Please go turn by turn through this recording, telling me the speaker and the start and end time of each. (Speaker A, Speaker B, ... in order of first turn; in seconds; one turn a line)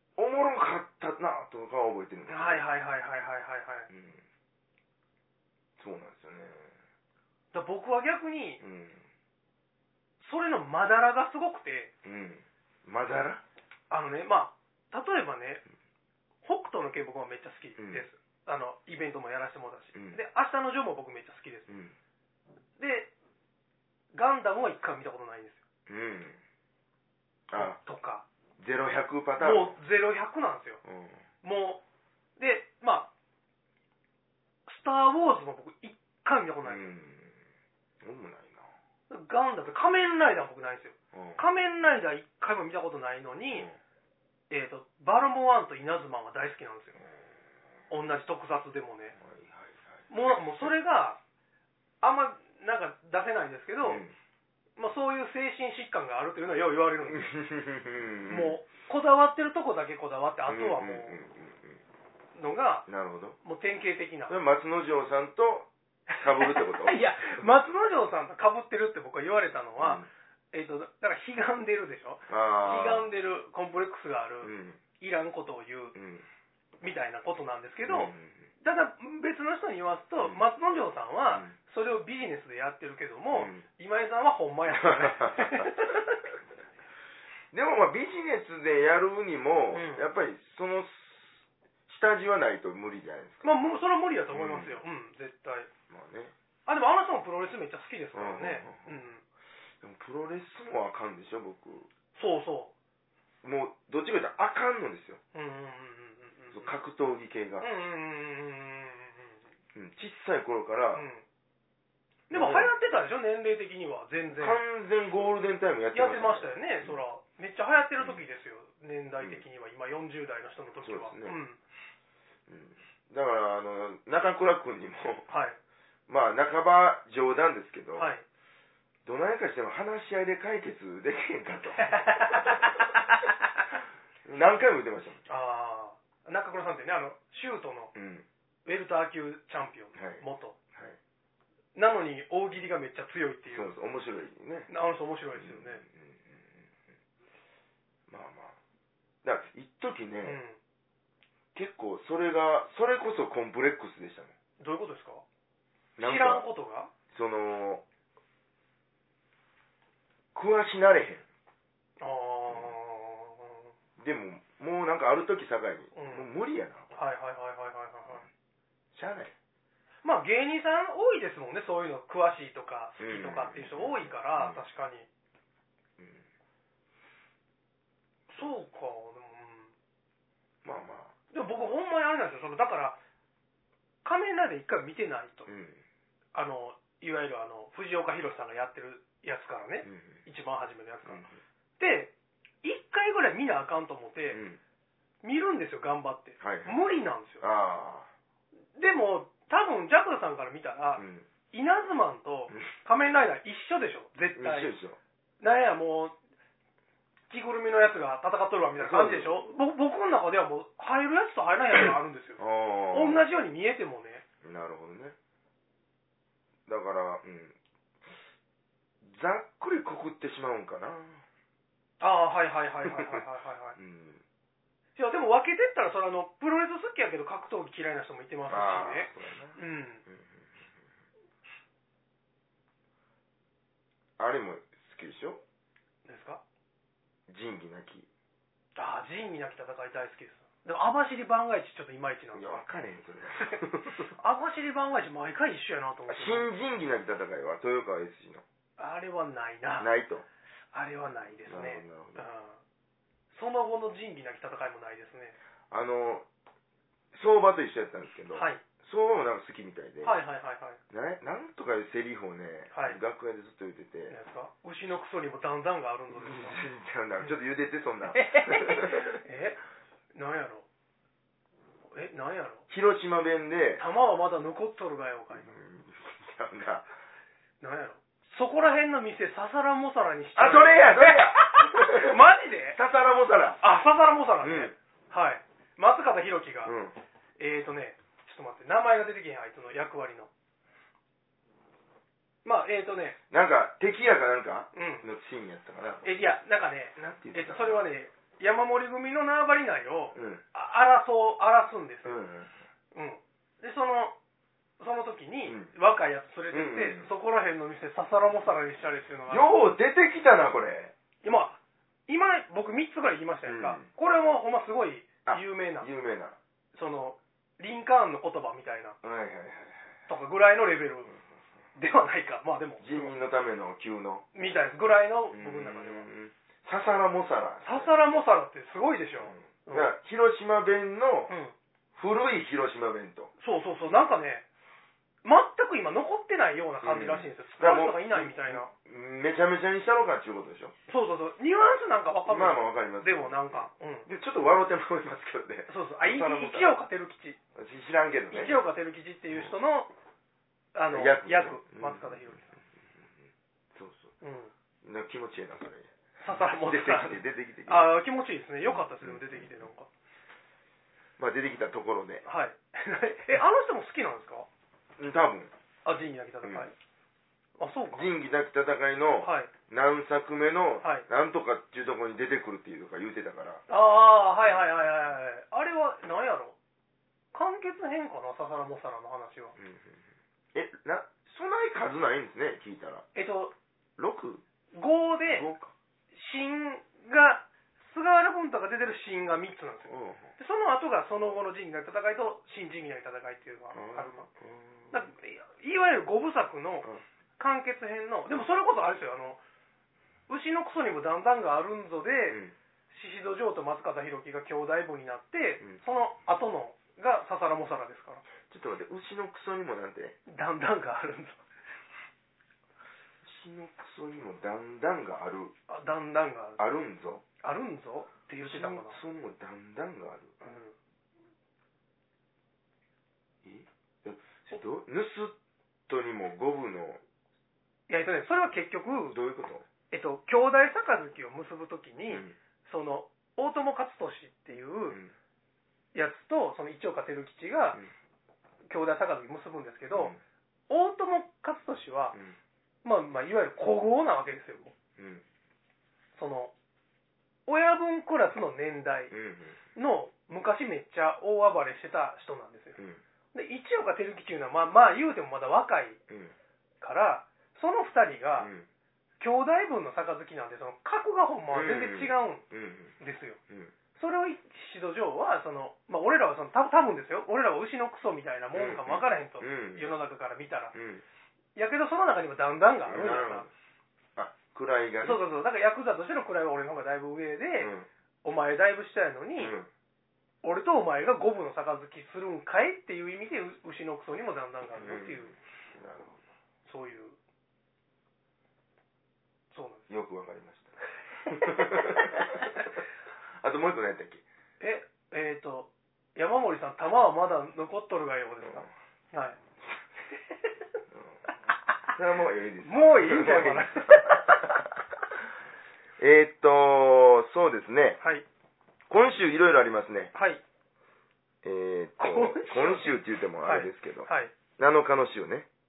Speaker A: 0.2-2.6
Speaker B: 2.3-3.9
Speaker A: 3.9-4.2
Speaker A: 5.8-6.8
Speaker B: 7.5-8.6
Speaker A: 8.6-9.1
Speaker B: 10.2-11.9
Speaker A: 12.0-13.4
Speaker B: 13.9-15.6
Speaker B: 16.4-21.7
Speaker A: 17.8-18.1
Speaker A: 19.9-20.2
Speaker A: 21.7-21.9
Speaker B: 22.8-23.1
Speaker B: 24.1-25.6
Speaker A: 25.9-26.4
Speaker A: 27.5-27.8
Speaker B: 27.6-28.2
Speaker A: 28.6-29.8
Speaker B: 29.4-30.8
Speaker A: 30.9-31.2
Speaker B: 31.4-31.8
Speaker B: 32.4-33.1
Speaker B: 34.7-36.9
Speaker A: 36.6-37.4
Speaker A: 38.0-38.7
Speaker B: 39.1-43.7
Speaker A: 41.1-41.4
Speaker B: 44.5-47.0
Speaker B: 47.9-49.2
Speaker A: 49.2-50.7
Speaker B: 50.1-51.2
Speaker B: 52.0-54.0
Speaker A: 53.8-54.1
Speaker B: 54.8-57.3
Speaker A: 57.1-58.6
Speaker B: 58.3-61.2
Speaker A: 60.5-61.8
Speaker B: 62.4-62.9
Speaker A: 62.9-63.4
Speaker B: 63.4-64.4
Speaker A: 64.3-67.5
Speaker B: 66.1-76.0
Speaker A: 69.8-70.1
Speaker A: 72.3-73.1
Speaker A: 74.4-74.8
Speaker A: 76.0-76.3
Speaker B: 76.8-86.3
Speaker A: 77.8-78.5
Speaker A: 80.2-80.5
Speaker A: 83.3-83.7
Speaker A: 84.7-85.7
Speaker A: 87.5-93.5
Speaker B: 89.7-90.1
Speaker B: 93.4-95.7
Speaker A: 94.3-94.8
Speaker A: 95.9-96.3
Speaker B: 96.7-99.2
Speaker A: 98.1-99.0
Speaker A: 99.8-101.9
Speaker B: 102.2-102.7
Speaker A: 103.4-105.2
Speaker B: 105.3-106.7
Speaker A: 106.5-107.7
Speaker B: 107.6-109.5
Speaker A: 109.7-111.1
Speaker B: 110.9-111.2
Speaker B: 112.3-114.6
Speaker A: 112.3-112.7
Speaker A: 114.4-117.0
Speaker B: 115.9-121.6
Speaker A: 120.8-121.4
Speaker A: 122.5-125.3
Speaker B: 125.3-125.6
Speaker A: 126.1-128.1
Speaker B: 128.0-128.2
Speaker A: 129.1-133.0
Speaker B: 131.8-133.3
Speaker A: 134.2-135.2
Speaker B: 135.3-137.9
Speaker A: 137.9-138.3
Speaker B: 138.7-140.6
Speaker A: 139.9-141.0
Speaker B: 141.8-143.7
Speaker A: 143.5-144.7
Speaker B: 144.7-145.8
Speaker A: 145.4-146.7
Speaker A: 148.1-148.6
Speaker A: 149.2-150.4
Speaker B: 150.2-150.6
Speaker A: 151.5-154.3
Speaker B: 154.6-155.2
Speaker A: 156.0-156.4
Speaker B: 156.0-156.9
Speaker A: 157.1-157.8
Speaker A: 160.3-161.2
Speaker B: 162.0-163.7
Speaker A: 164.0-166.9
Speaker B: 165.9-166.3
Speaker B: 166.9-168.3
Speaker A: 168.9-169.3
Speaker B: 170.0-175.1
Speaker A: 173.0-174.6
Speaker A: 176.0-176.2
Speaker B: 178.3-179.7
Speaker A: 180.6-181.1
Speaker B: 181.3-183.0
Speaker B: 184.0-185.5
Speaker A: 185.5-185.8
Speaker B: 186.3-191.3
Speaker A: 189.8-190.2
Speaker A: 191.1-191.4
Speaker B: 191.8-194.4
Speaker A: 194.3-194.6
Speaker B: 195.2-197.4
Speaker A: 196.4-196.8
Speaker A: 197.4-198.1
Speaker B: 198.8-204.7
Speaker A: 201.0-201.3
Speaker A: 204.4-205.0
Speaker B: 205.4-206.2
Speaker B: 207.3-214.2
Speaker A: 208.8-209.4
Speaker A: 212.4-213.2
Speaker A: 214.4-215.2
Speaker A: 216.7-218.2
Speaker A: 219.0-221.2
Speaker B: 222.0-223.8
Speaker A: 222.9-223.2
Speaker A: 223.8-224.2
Speaker B: 225.0-230.0
Speaker A: 228.5-230.5
Speaker A: 234.2-235.4
Speaker B: 236.1-236.4
Speaker A: 237.3-238.1
Speaker B: 238.8-242.7
Speaker A: 242.3-244.1
Speaker B: 243.4-246.5
Speaker A: 246.1-248.4
Speaker B: 248.8-249.9
Speaker A: 249.8-250.3
Speaker B: 250.7-252.6
Speaker A: 251.5-252.3
Speaker B: 253.3-255.4
Speaker A: 255.7-256.3
Speaker A: 257.1-260.2
Speaker B: 258.3-258.6
Speaker B: 260.0-260.8
Speaker A: 260.9-264.2
Speaker B: 262.7-263.0
Speaker B: 264.1-266.6
Speaker A: 266.1-269.2
Speaker B: 268.1-269.6
Speaker B: 270.1-270.6
Speaker B: 271.9-272.6
Speaker A: 272.7-273.8
Speaker B: 273.8-275.5
Speaker A: 275.3-276.9
Speaker B: 277.6-282.8
Speaker A: 280.4-283.6
Speaker B: 283.6-286.8
Speaker A: 284.4-284.7
Speaker A: 286.6-287.0
Speaker B: 287.4-290.3
Speaker B: 292.4-293.2
Speaker A: 293.3-296.3
Speaker B: 294.7-295.1
Speaker B: 296.0-302.2
Speaker A: 297.0-297.9
Speaker A: 300.1-300.4
Speaker A: 302.1-302.5
Speaker B: 302.9-304.2
Speaker B: 304.8-309.5
Speaker A: 305.4-305.7
Speaker A: 306.5-307.1
Speaker A: 309.3-310.9
Speaker B: 311.2-315.9
Speaker A: 313.4-313.9
Speaker A: 315.3-316.4
Speaker B: 316.7-319.0
Speaker A: 319.0-319.9
Speaker B: 320.1-321.1
Speaker B: 321.8-323.1
Speaker A: 322.8-324.3
Speaker B: 324.3-326.1
Speaker A: 325.3-327.9
Speaker B: 327.6-329.9
Speaker A: 329.3-331.3
Speaker B: 331.3-331.5
Speaker A: 332.0-333.3
Speaker B: 333.4-334.4
Speaker B: 335.2-338.7
Speaker A: 336.8-340.8
Speaker B: 340.9-344.1
Speaker A: 342.3-346.8
Speaker B: 345.7-347.4
Speaker A: 347.6-348.6
Speaker B: 348.3-349.9
Speaker B: 350.7-352.5
Speaker A: 350.9-354.1
Speaker B: 354.2-354.5
Speaker A: 354.8-357.9
Speaker B: 356.2-359.9
Speaker A: 358.6-359.7
Speaker A: 361.2-362.2
Speaker B: 362.2-364.5
Speaker A: 365.0-365.5
Speaker B: 365.9-366.7
Speaker A: 366.4-366.7
Speaker B: 367.6-368.1
Speaker A: 367.9-373.6
Speaker B: 369.2-369.5
Speaker B: 373.7-376.6
Speaker B: 377.3-379.6
Speaker A: 379.6-380.0
Speaker A: 380.5-383.1
Speaker B: 383.1-383.5
Speaker A: 384.0-384.4
Speaker B: 384.7-385.5
Speaker A: 385.3-385.7
Speaker B: 386.1-394.3
Speaker A: 389.9-390.3
Speaker A: 393.7-395.1
Speaker B: 394.9-399.4
Speaker B: 400.3-408.2
Speaker A: 402.3-402.6
Speaker A: 408.5-410.2
Speaker B: 410.3-411.4
Speaker A: 413.2-415.5
Speaker B: 415.7-416.6
Speaker A: 416.6-417.2
Speaker B: 417.4-419.0
Speaker A: 418.4-420.4
Speaker B: 420.4-420.7
Speaker A: 423.4-425.4
Speaker A: 425.9-427.0
Speaker B: 427.9-429.2
Speaker A: 429.1-429.6
Speaker B: 429.9-435.0
Speaker A: 432.1-432.4
Speaker A: 434.9-435.1
Speaker B: 435.9-437.8
Speaker B: 438.7-440.1
Speaker A: 439.9-440.2
Speaker B: 440.7-442.2
Speaker B: 442.8-444.7
Speaker A: 445.0-445.2
Speaker B: 446.2-446.5
Speaker B: 447.5-449.1
Speaker A: 449.1-449.6
Speaker B: 449.8-452.8
Speaker B: 453.3-456.0
Speaker A: 456.1-456.4
Speaker B: 456.8-458.5
Speaker A: 458.4-458.7
Speaker B: 459.2-462.4
Speaker A: 461.5-463.0
Speaker B: 463.0-463.4
Speaker B: 464.0-470.8
Speaker A: 468.5-469.9
Speaker A: 470.7-471.0
Speaker B: 471.6-473.5
Speaker A: 472.9-473.5
Speaker A: 474.2-475.2
Speaker B: 475.0-479.6
Speaker A: 477.6-477.9
Speaker A: 479.4-479.7
Speaker B: 480.4-485.3
Speaker A: 484.8-486.2
Speaker B: 486.6-487.2
Speaker B: 489.5-489.9
Speaker A: 489.9-492.7
Speaker B: 492.2-492.4
Speaker A: 493.4-494.2
Speaker B: 494.6-499.4
Speaker A: 502.0-504.8
Speaker B: 502.6-504.4
Speaker A: 506.0-508.0
Speaker A: 508.9-510.1
Speaker B: 510.1-510.4
Speaker A: 511.4-515.5
Speaker B: 512.0-514.3